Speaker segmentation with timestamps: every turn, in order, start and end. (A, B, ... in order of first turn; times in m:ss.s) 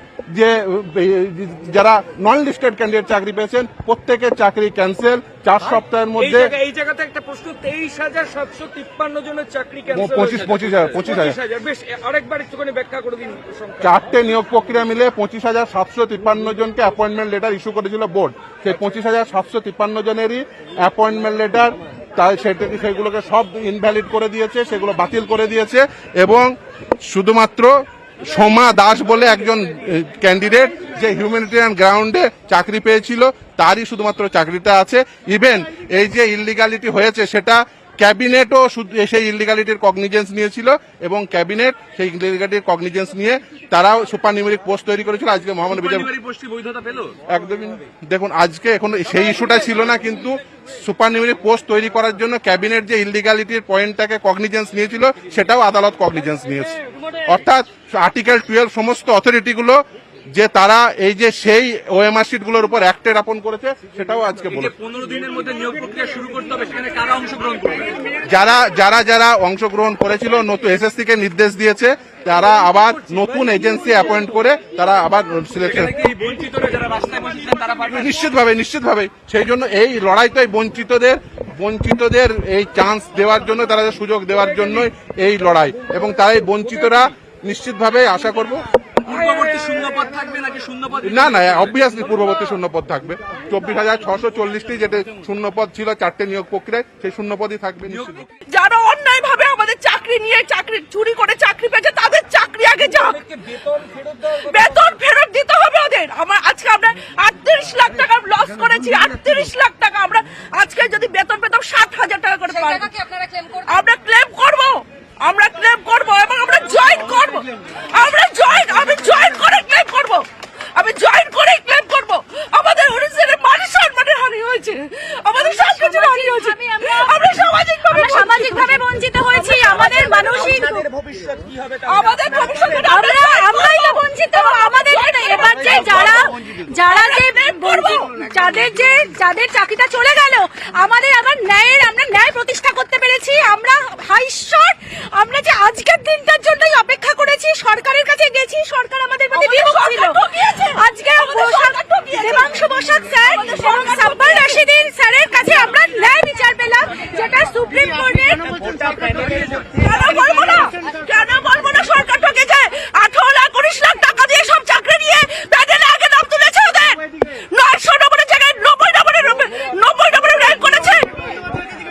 0:00.3-0:06.6 A
0:06.2-0:13.9 B
0:09.9-0:11.4 A
0:13.8-0:46.1 A
0:45.8-0:47.1 C
0:47.3-0:59.8 A
1:00.3-1:04.7 A
1:04.6-1:04.9 C
1:04.9-1:08.2 B
1:05.4-1:07.6 C
1:08.2-1:15.9 A
1:13.1-1:14.2 B
1:15.8-1:17.4 C
1:16.0-1:18.2 B
1:17.9-1:28.6 A
1:29.0-1:30.4 B
1:29.0-1:31.4 C
1:31.0-1:38.3 A
1:38.3-1:43.2 D
1:43.1-1:44.6 B
1:44.3-1:52.9 D
1:52.5-1:53.7 E
1:53.7-2:10.0 D
2:05.3-2:10.8 E
2:09.9-2:12.8 B
2:11.8-2:18.5 D
2:12.8-2:30.2 E
2:29.3-2:32.6 D
2:30.7-2:38.8 E
2:33.2-2:34.6 D
2:38.8-2:39.7 B
2:39.6-2:51.1 D